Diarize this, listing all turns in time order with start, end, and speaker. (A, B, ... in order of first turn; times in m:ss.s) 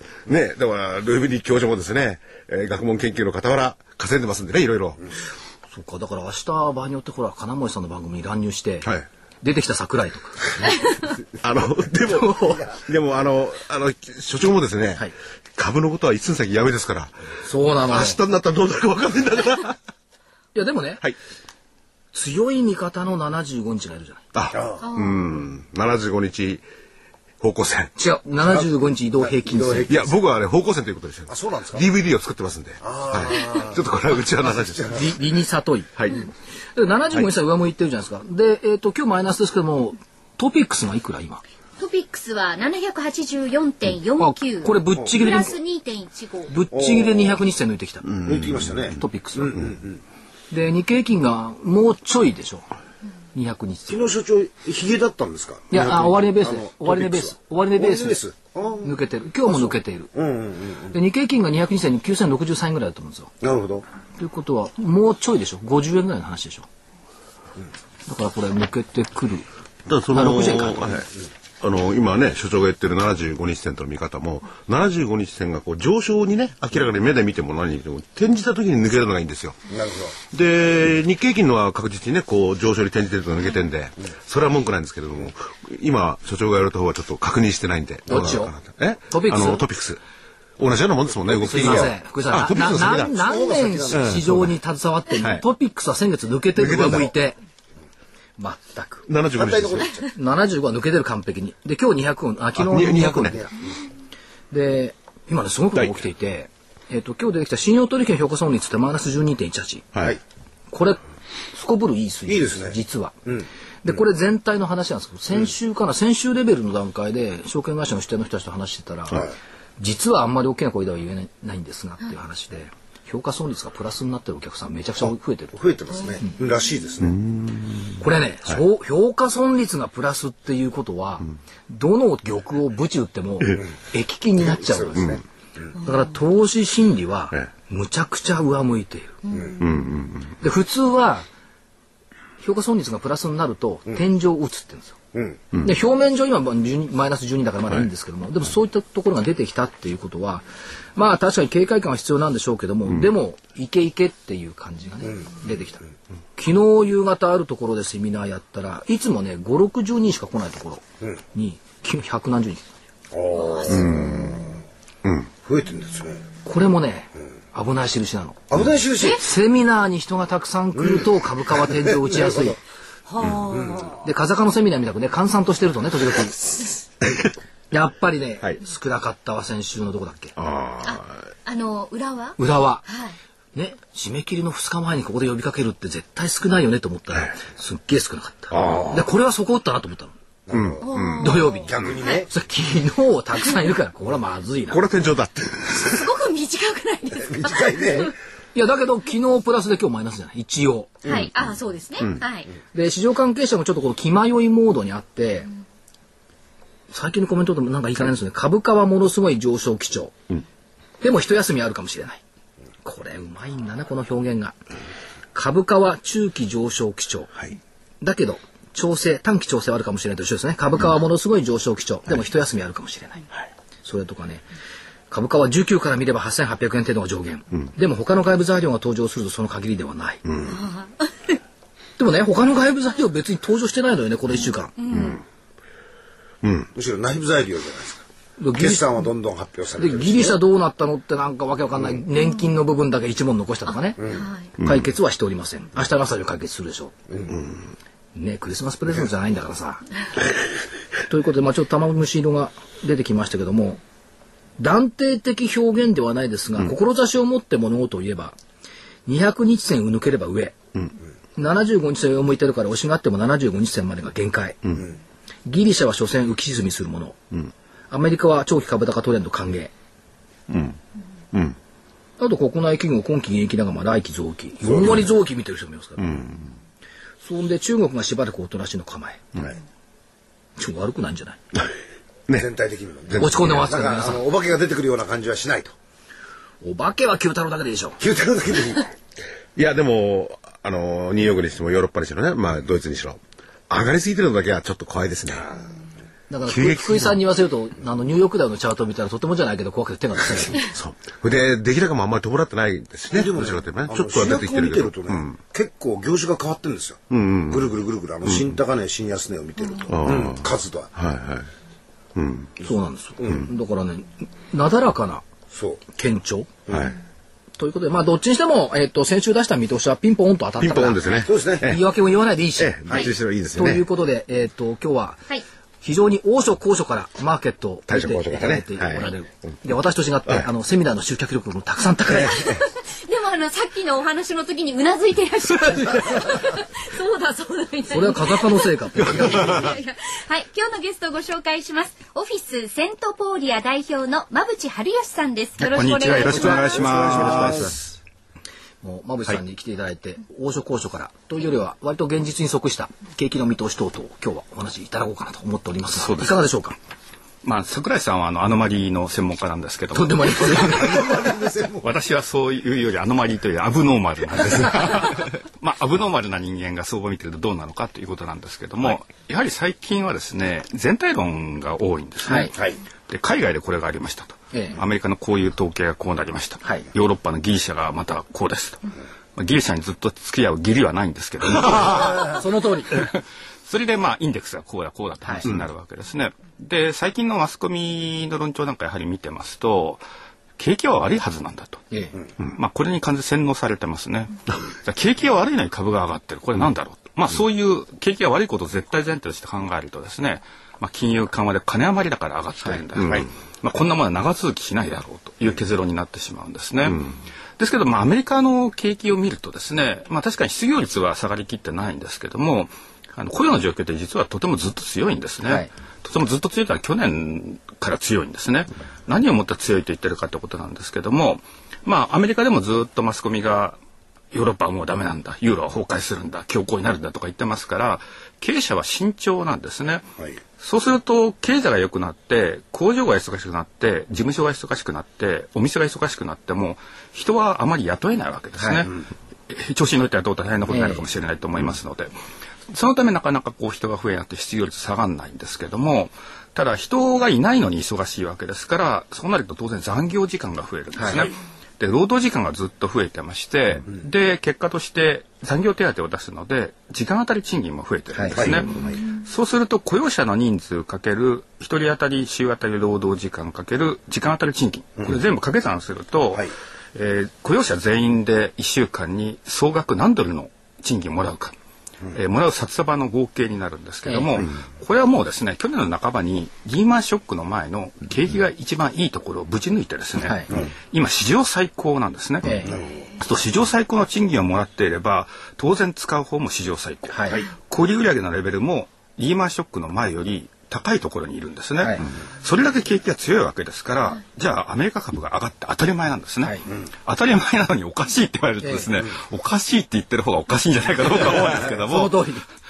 0:00.2-0:05.0 A
0:05.7-0:08.9 B
0:09.4-0:10.5 B
0:11.3-0:17.1 A
0:17.4-0:18.2 B
0:17.8-0:19.8 A
0:20.5-0:21.1 B
0:22.1-0:24.2 B
0:24.3-0:26.6 A
0:24.5-0:24.8 C
0:24.8-0:25.2 D
0:27.4-0:27.9 A
0:28.0-0:30.0 B
0:29.2-0:30.0 C
0:29.9-0:35.0 A
0:31.3-0:31.8 C
0:32.8-0:33.9 C
0:34.4-0:35.0 C
0:34.9-0:41.4 B
0:41.8-0:46.5 D
0:44.2-0:45.6 B
0:46.5-0:48.2 B
0:46.7-0:47.4 C
0:48.1-0:48.7 A
0:48.2-0:50.0 C
0:48.9-0:49.6 B
0:50.5-0:52.7 B
0:53.3-0:54.1 B
0:53.9-1:00.9 C
0:55.7-0:58.2 B
0:58.8-1:00.1 B
1:00.9-1:03.3 B
1:03.4-1:03.8 C
1:04.2-1:06.7 B
1:08.1-1:09.4 B
1:09.9-1:19.6 A
1:10.1-1:11.0 B
1:19.7-1:20.2 C
1:20.2-1:30.0 A
1:28.1-1:28.6 B
1:29.1-1:29.6 B
1:30.6-1:33.1 A
1:31.3-1:37.4 B
1:31.6-1:31.9 C
1:32.9-1:34.2 C
1:33.9-1:34.3 A
1:36.6-1:37.1 A
1:38.4-1:39.1 B
1:39.1-1:39.9 A
1:39.4-1:40.1 C
1:40.1-1:43.5 B
1:42.6-1:43.4 A
1:43.3-1:43.6 C
1:44.5-1:49.9 B
1:50.7-1:51.0 B
1:51.5-1:53.2 B
1:52.3-1:53.4 C
1:53.8-1:59.2 B
1:59.8-2:05.6 B
2:05.5-2:07.2 C
2:07.0-2:07.9 A
2:08.0-2:15.2 B
2:14.4-2:15.7 C
2:15.8-2:19.2 B
2:19.2-2:19.7 D
2:19.3-2:19.5 C
2:19.6-2:20.3 A
2:20.4-2:21.3 B
2:22.4-2:25.0 B
2:25.1-2:25.4 C
2:25.6-2:35.8 B
2:36.4-2:40.8 B
2:41.3-2:42.7 B
2:43.1-2:44.6 C
2:43.3-2:43.9 D
2:43.7-2:44.2 A
2:45.4-2:46.3 C
2:46.4-2:48.4 B
2:48.5-2:49.2 C
2:49.2-2:52.6 B
2:52.1-2:52.5 C
2:53.1-2:54.0 D
2:53.5-2:53.9 C
2:54.0-2:56.5 B
2:57.7-3:00.3 B
3:00.4-3:01.1 A
3:00.8-3:03.1 D
3:02.4-3:02.8 B
3:03.5-3:10.1 B
3:08.5-3:09.0 A
3:10.5-3:11.0 C
3:10.5-3:11.9 A
3:10.8-3:12.2 D
3:11.2-3:14.8 B
3:11.6-3:12.3 C
3:14.7-3:16.0 A
3:15.7-3:18.1 D
3:17.1-3:18.1 C
3:18.5-3:21.0 B
3:21.0-3:22.5 D
3:22.7-3:25.5 B
3:26.9-3:30.1 B
3:31.0-3:32.2 B
3:32.8-3:34.6 B
3:35.3-3:37.3 B
3:38.0-3:43.2 B
3:43.8-3:44.4 B
3:45.1-3:50.2 B
3:50.2-3:50.6 A
3:50.5-3:51.3 D
3:52.0-3:55.1 B
3:54.8-3:55.2 D
3:56.4-3:56.7 A
3:56.7-3:58.0 C
3:58.4-3:58.8 B
3:58.6-4:00.4 C
3:59.8-4:06.9 B
4:04.1-4:04.5 D
4:04.6-4:04.8 A
4:08.1-4:09.8 B
4:11.1-4:13.8 B
4:14.6-4:18.4 B
4:19.0-4:20.6 B
4:21.4-4:24.7 B
4:25.4-4:27.2 B
4:27.9-4:29.7 B
4:30.5-4:30.8 A
4:32.2-4:36.2 B
4:36.0-4:36.5 A
4:37.2-4:39.4 B
4:40.6-4:41.4 B
4:42.3-4:45.7 C
4:43.1-4:43.6 A
4:43.2-4:44.2 B
4:46.6-4:48.0 B
4:48.0-4:48.9 C
4:49.6-4:55.5 A
4:56.3-5:00.7 B
4:56.5-4:57.2 A
5:00.7-5:05.4 A
5:03.1-5:10.9 C
5:07.1-5:08.5 A
5:09.9-5:11.5 A
5:12.1-5:12.5 A
5:12.6-5:15.2 B
5:15.5-5:15.8 C
5:15.9-5:16.5 B
5:16.7-5:16.9 A
5:17.6-5:25.3 B
5:20.6-5:21.8 A
5:21.2-5:21.7 C
5:22.6-5:23.8 A
5:25.8-5:32.6 B
5:27.9-5:29.0 A
5:32.5-5:46.8 D
5:37.9-5:39.7 B
5:45.6-5:47.9 E
5:46.2-5:47.7 C
5:47.2-5:47.7 A
5:48.8-5:56.8 B
5:56.0-5:56.4 E
5:57.4-6:01.3 E
5:59.9-6:01.2 B
6:00.6-6:01.9 C
6:01.8-6:22.3 E
6:12.2-6:12.5 B
6:12.5-6:12.8 C
6:21.8-6:23.1 B
6:22.9-6:30.0 E
6:30.6-6:31.8 E
6:32.5-7:03.8 E
6:43.0-6:43.3 A
6:55.4-6:55.7 B
7:04.3-7:10.0 E
7:10.6-7:22.1 E
7:18.6-7:18.9 B
7:20.7-7:21.0 B
7:22.7-7:51.5 E
7:31.0-7:31.3 B
7:38.1-7:38.4 B
7:38.3-7:39.0 C
7:52.1-8:22.2 E
7:54.0-7:54.3 B
8:00.2-8:00.5 B
8:02.4-8:02.7 B
8:02.6-8:03.0 C
8:07.1-8:07.4 B
8:11.8-8:12.0 B
8:18.6-8:18.9 B
8:21.4-8:22.5 B